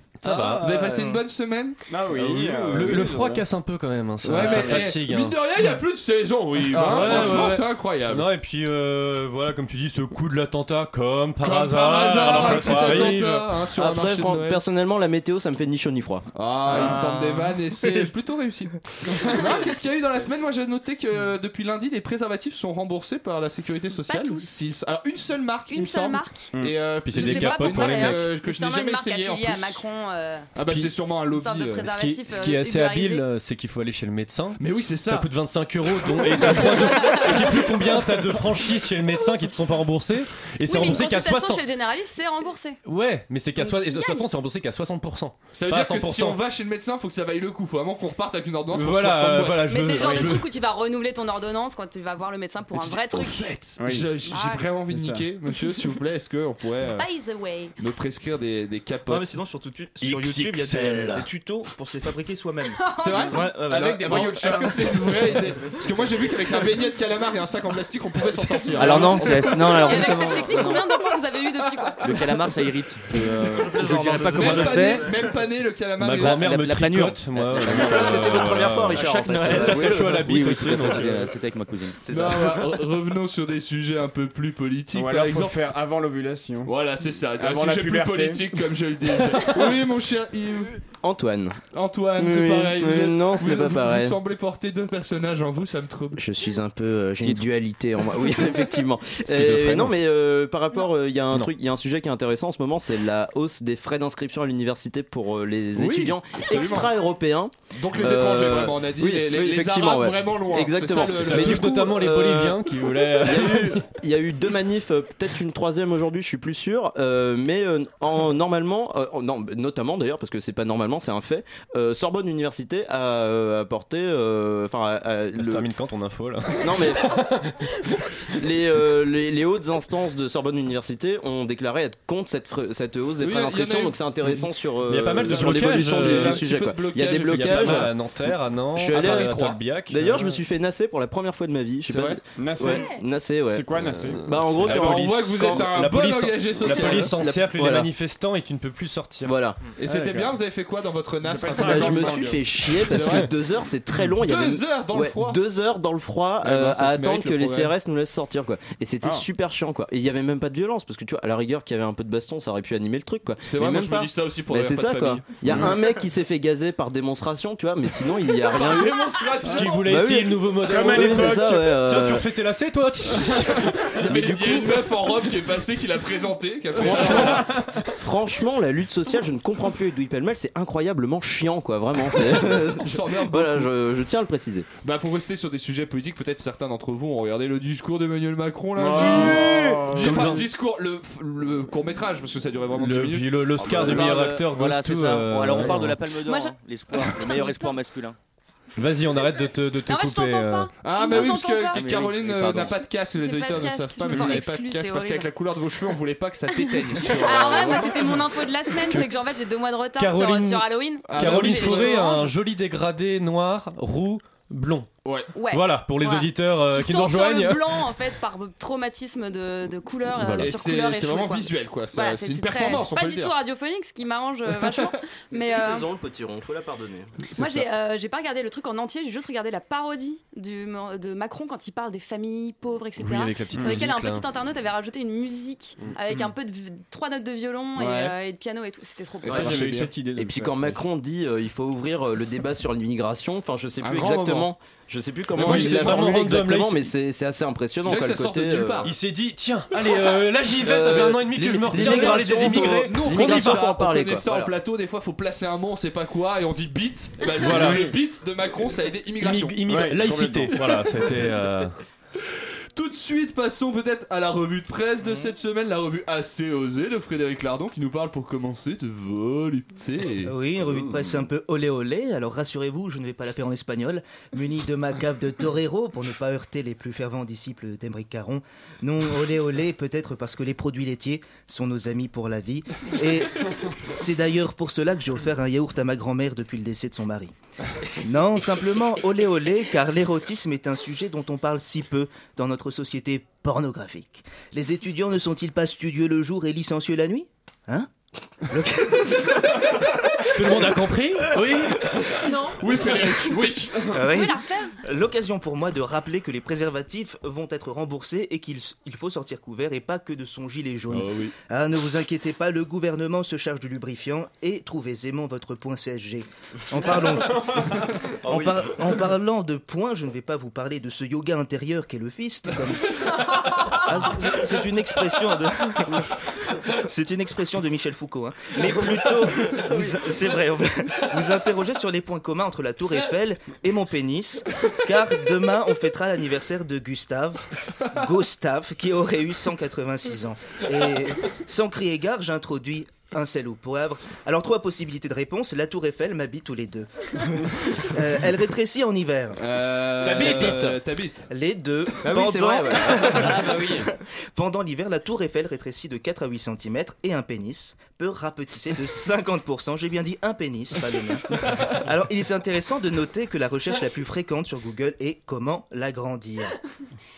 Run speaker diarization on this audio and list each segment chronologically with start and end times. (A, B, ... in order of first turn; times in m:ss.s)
0:00.2-0:01.0 A
0:00.6-0:01.8 B
0:00.9-0:01.2 C
0:01.9-0:03.3 D
0:02.6-0:05.4 A
0:04.2-0:08.3 B
0:06.6-0:13.5 A
0:06.8-0:07.2 D
0:11.4-0:14.6 B
0:13.7-0:16.3 E
0:16.3-0:29.8 B
0:16.7-0:17.1 D
0:16.8-0:17.5 C
0:24.1-0:24.5 F
0:25.7-0:26.5 F
0:27.0-0:28.3 A
0:27.1-0:30.5 F
0:30.6-0:32.0 B
0:30.7-0:30.9 A
0:31.3-0:33.2 F
0:31.8-0:41.6 A
0:34.6-0:35.3 B
0:36.2-0:36.7 B
0:36.5-0:37.7 F
0:40.6-0:42.8 F
0:42.8-0:46.4 A
0:43.6-0:44.3 F
0:45.5-0:50.4 B
0:48.7-0:50.5 A
0:49.7-0:53.5 F
0:52.7-0:57.1 B
0:54.3-0:54.7 F
0:54.9-0:55.2 D
0:57.0-0:57.8 F
0:57.8-0:59.3 B
0:59.1-1:04.4 C
1:02.8-1:03.4 F
1:03.0-1:10.0 B
1:03.9-1:05.1 D
1:08.7-1:10.9 G
1:09.7-1:12.1 F
1:12.0-1:15.1 G
1:13.6-1:14.4 C
1:13.8-1:14.3 D
1:14.2-1:16.4 B
1:16.0-1:21.3 A
1:16.2-1:22.4 G
1:17.6-1:21.1 E
1:22.0-1:22.6 E
1:22.1-1:25.7 B
1:24.9-1:26.7 D
1:26.6-1:30.8 B
1:27.4-1:28.4 D
1:31.0-1:31.6 E
1:31.7-1:36.2 B
1:32.2-1:34.2 E
1:36.2-2:05.7 E
1:37.2-1:37.5 G
1:39.3-1:39.8 B
1:45.8-1:46.9 B
1:47.8-1:51.8 B
1:51.0-1:53.9 A
2:05.4-2:07.5 A
2:06.6-2:07.3 E
2:08.2-2:25.7 E
2:13.2-2:14.0 B
2:14.2-2:16.5 A
2:15.1-2:18.0 B
2:17.1-2:20.2 A
2:18.9-2:19.6 B
2:21.9-2:22.2 B
2:22.4-2:22.8 D
2:22.6-2:23.0 F
2:23.5-2:24.4 D
2:24.0-2:29.4 A
2:24.6-2:27.2 B
2:26.6-2:27.9 E
2:29.2-2:29.6 E
2:29.8-2:33.3 B
2:29.8-2:30.3 D
2:31.2-2:32.4 D
2:31.5-2:49.2 E
2:34.2-2:35.4 B
2:36.4-2:37.7 B
2:43.4-2:45.7 B
2:48.6-2:49.7 B
2:49.4-2:54.9 A
2:49.7-2:52.3 E
2:53.8-2:57.5 B
2:57.0-2:57.4 A
2:58.0-3:04.7 E
3:02.3-3:03.7 B
3:04.8-3:14.2 B
3:08.8-3:10.3 D
3:08.9-3:10.5 A
3:12.7-3:16.0 A
3:13.6-3:18.2 G
3:16.2-3:17.8 F
3:18.8-3:20.7 A
3:19.9-3:21.8 F
3:20.8-3:28.2 B
3:21.2-3:22.8 G
3:23.2-3:25.3 F
3:26.9-3:32.3 F
3:28.7-3:29.1 A
3:30.0-3:34.9 A
3:31.1-3:32.2 B
3:35.0-3:35.3 B
3:35.3-3:45.9 F
3:35.5-3:37.8 A
3:40.2-3:40.6 A
3:40.4-3:43.3 B
3:44.6-3:44.9 B
3:45.3-3:47.2 E
3:47.3-3:47.7 B
3:47.3-3:59.6 F
3:53.0-3:54.3 A
3:57.8-3:58.1 B
3:59.2-3:59.9 B
3:59.5-4:00.4 D
4:00.2-4:09.0 E
4:03.8-4:04.5 B
4:05.4-4:06.1 B
4:05.4-4:06.9 A
4:07.8-4:09.0 B
4:08.8-4:13.6 A
4:10.6-4:14.6 E
4:10.9-4:19.6 B
4:17.4-4:18.0 A
4:17.5-4:17.9 D
4:19.2-4:21.7 A
4:19.7-4:21.0 D
4:22.8-4:30.3 B
4:30.2-4:47.3 C
4:48.0-4:57.9 C
4:58.4-4:59.6 C
5:00.3-5:01.8 A
5:02.2-5:02.6 F
5:02.6-5:03.8 B
5:03.9-5:23.1 C
5:04.0-5:04.8 F
5:10.9-5:11.3 A
5:23.8-5:26.1 C
5:26.6-5:49.4 C
5:49.4-5:51.3 B
5:50.0-5:50.7 A
5:50.0-5:50.8 E
5:51.3-6:06.6 C
5:52.0-5:53.9 E